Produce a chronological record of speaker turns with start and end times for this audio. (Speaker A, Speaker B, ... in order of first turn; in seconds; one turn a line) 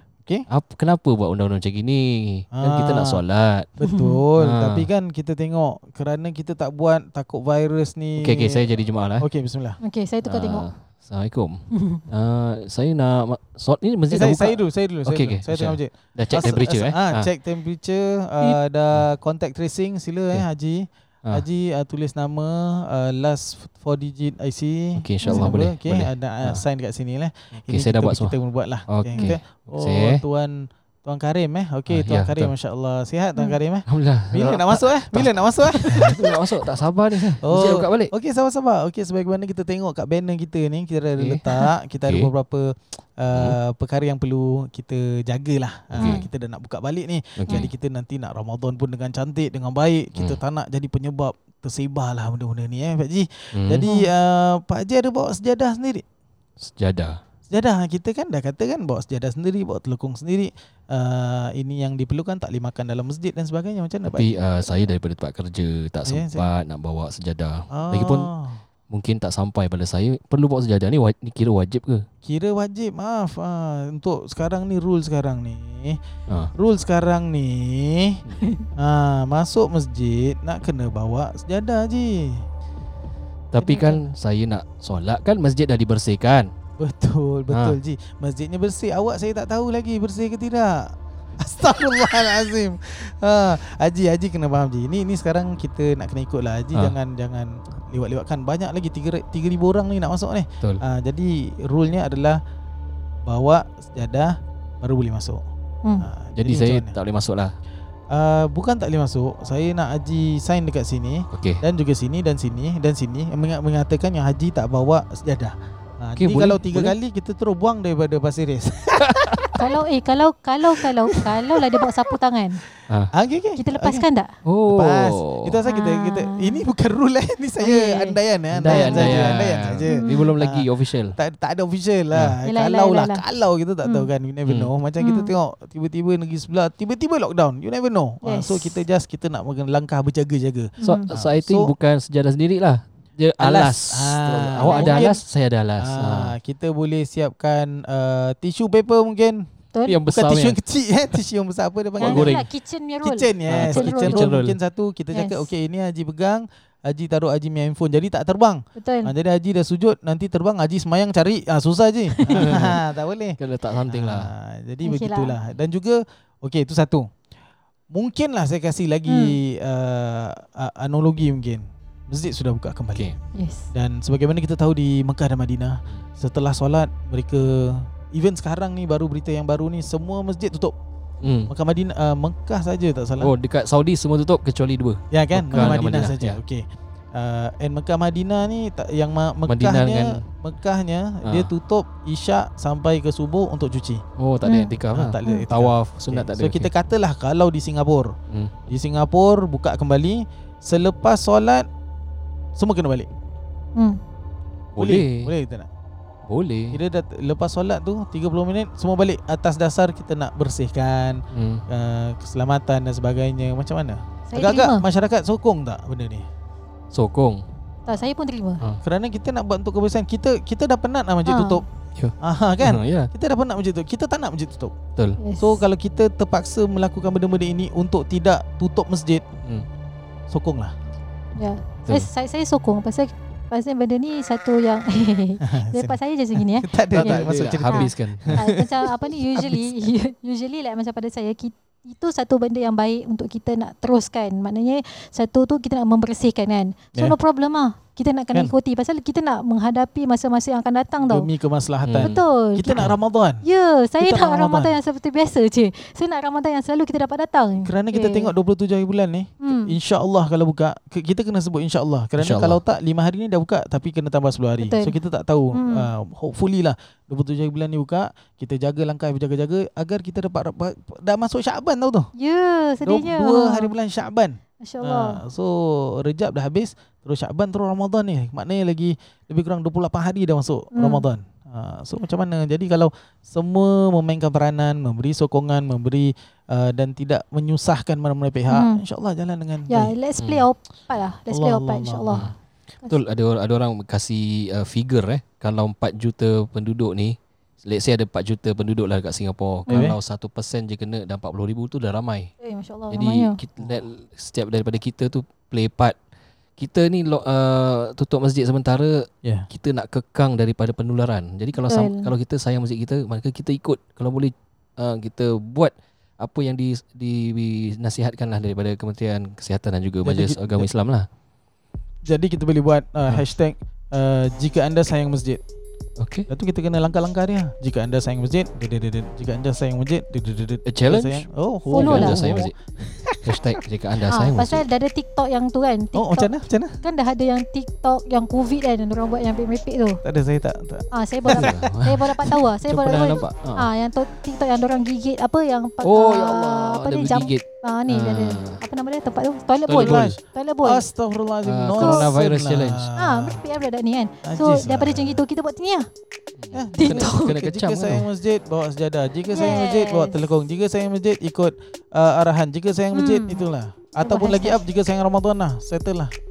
Speaker A: 0.5-3.7
Speaker B: 2.5-3.2
Speaker B: 3.8-9.8
Speaker C: 3.8-4.2
Speaker A: 4.3-4.9
Speaker A: 8.2-9.2
Speaker C: 9.8-10.7
Speaker A: 10.2-17.3
Speaker C: 11.7-12.0
Speaker B: 14.1-36.3
Speaker A: 18.4-19.1
Speaker A: 24.9-26.6
Speaker C: 25.2-25.6
Speaker A: 27.7-28.3
Speaker A: 28.9-30.2
Speaker A: 31.9-32.5
Speaker A: 33.9-38.1
Speaker B: 37.4-56.0
Speaker A: 41.1-41.5
Speaker A: 43.3-43.6
Speaker A: 45.9-46.2
Speaker C: 46.0-46.3
Speaker A: 47.4-47.7
Speaker A: 50.1-50.4
Speaker A: 53.5-53.9
Speaker C: 53.8-54.1
Speaker A: 56.6-57.2
Speaker B: 57.5-64.8
Speaker A: 64.1-68.3
Speaker B: 66.0-66.5
Speaker B: 67.7-68.6
Speaker A: 68.9-72.0
Speaker B: 72.2-76.0
Speaker B: 76.5-78.2
Speaker C: 78.4-78.7
Speaker B: 78.8-82.4
Speaker A: 83.5-86.5
Speaker B: 83.6-84.1
Speaker B: 86.8-102.4
Speaker A: 87.5-87.8
Speaker B: 103.2-105.4
Speaker B: 106.0-106.9
Speaker A: 106.3-107.5
Speaker B: 108.1-119.6
Speaker A: 111.3-111.6
Speaker A: 116.2-117.0
Speaker A: 119.0-119.5
Speaker C: 119.5-122.6
Speaker B: 121.2-121.6
Speaker B: 123.1-124.0
Speaker C: 123.6-124.3
Speaker A: 124.5-125.6
Speaker B: 124.7-141.7
Speaker C: 125.7-126.6
Speaker C: 127.6-128.2
Speaker A: 128.5-131.2
Speaker C: 128.7-129.3
Speaker C: 129.9-130.2
Speaker C: 132.4-133.2
Speaker A: 134.4-134.7
Speaker C: 135.0-135.3
Speaker C: 138.2-138.8
Speaker C: 140.8-141.1
Speaker A: 140.8-146.3
Speaker B: 143.4-145.1
Speaker C: 144.6-145.2
Speaker B: 145.8-149.5
Speaker C: 149.7-150.0
Speaker A: 149.9-150.6
Speaker B: 150.1-152.4
Speaker C: 152.0-154.3
Speaker A: 152.0-152.4
Speaker B: 153.0-167.1
Speaker A: 153.5-154.6
Speaker C: 155.1-155.5
Speaker C: 158.8-159.1
Speaker C: 162.1-162.6
Speaker A: 162.3-162.8
Speaker A: 163.4-164.3
Speaker C: 164.8-165.3
Speaker B: 167.9-173.1
Speaker C: 169.1-169.4
Speaker C: 173.3-173.7
Speaker B: 173.7-180.7
Speaker A: 181.2-181.5
Speaker B: 181.5-183.3
Speaker A: 183.2-186.4
Speaker B: 185.1-194.0
Speaker A: 189.5-190.2
Speaker A: 191.2-191.5
Speaker A: 194.2-196.7
Speaker C: 194.4-195.4
Speaker B: 194.9-198.1
Speaker A: 198.3-198.5
Speaker B: 198.7-201.7
Speaker B: 202.6-203.1
Speaker A: 204.7-205.3
Speaker B: 204.8-205.7
Speaker A: 206.2-206.8
Speaker B: 206.7-216.2
Speaker A: 211.3-211.6
Speaker C: 214.3-214.8
Speaker A: 216.9-217.4
Speaker C: 217.8-218.6
Speaker B: 218.8-221.6
Speaker C: 221.2-221.6
Speaker A: 221.9-223.1
Speaker B: 222.2-224.7
Speaker C: 225.2-225.6
Speaker B: 225.4-229.2
Speaker B: 230.3-230.7
Speaker C: 231.4-251.3
Speaker B: 235.4-238.8
Speaker A: 236.9-238.4
Speaker B: 251.1-253.4
Speaker A: 251.8-252.2
Speaker C: 252.0-252.9
Speaker C: 253.4-258.3
Speaker B: 254.0-254.7
Speaker B: 257.6-272.1
Speaker C: 259.4-259.7
Speaker A: 262.2-262.6
Speaker C: 264.6-265.0
Speaker C: 265.5-265.9
Speaker C: 272.1-273.7
Speaker B: 272.8-289.9
Speaker C: 274.6-275.2
Speaker C: 280.7-281.0
Speaker C: 288.5-288.8
Speaker C: 289.7-293.0
Speaker A: 290.2-290.4
Speaker B: 291.3-292.2
Speaker A: 292.9-302.3
Speaker B: 299.7-300.0
Speaker C: 302.4-303.4
Speaker A: 302.9-306.0
Speaker A: 306.6-321.1
Speaker C: 311.5-312.1
Speaker B: 320.0-320.7
Speaker B: 322.1-325.4
Speaker A: 326.0-326.3
Speaker B: 326.3-333.6
Speaker A: 330.6-332.5
Speaker C: 331.7-332.2
Speaker A: 333.2-334.6
Speaker C: 334.1-340.0
Speaker B: 335.9-336.8
Speaker B: 340.0-342.4
Speaker C: 340.9-350.8
Speaker A: 341.3-343.7
Speaker A: 345.8-348.6
Speaker A: 349.7-350.2
Speaker B: 349.7-353.4
Speaker A: 351.4-352.9
Speaker C: 351.8-352.1
Speaker C: 353.0-355.9
Speaker B: 354.2-355.2
Speaker A: 356.4-358.1
Speaker B: 356.5-366.1
Speaker C: 356.8-357.3
Speaker C: 359.3-360.3
Speaker C: 362.9-363.5
Speaker C: 364.0-364.6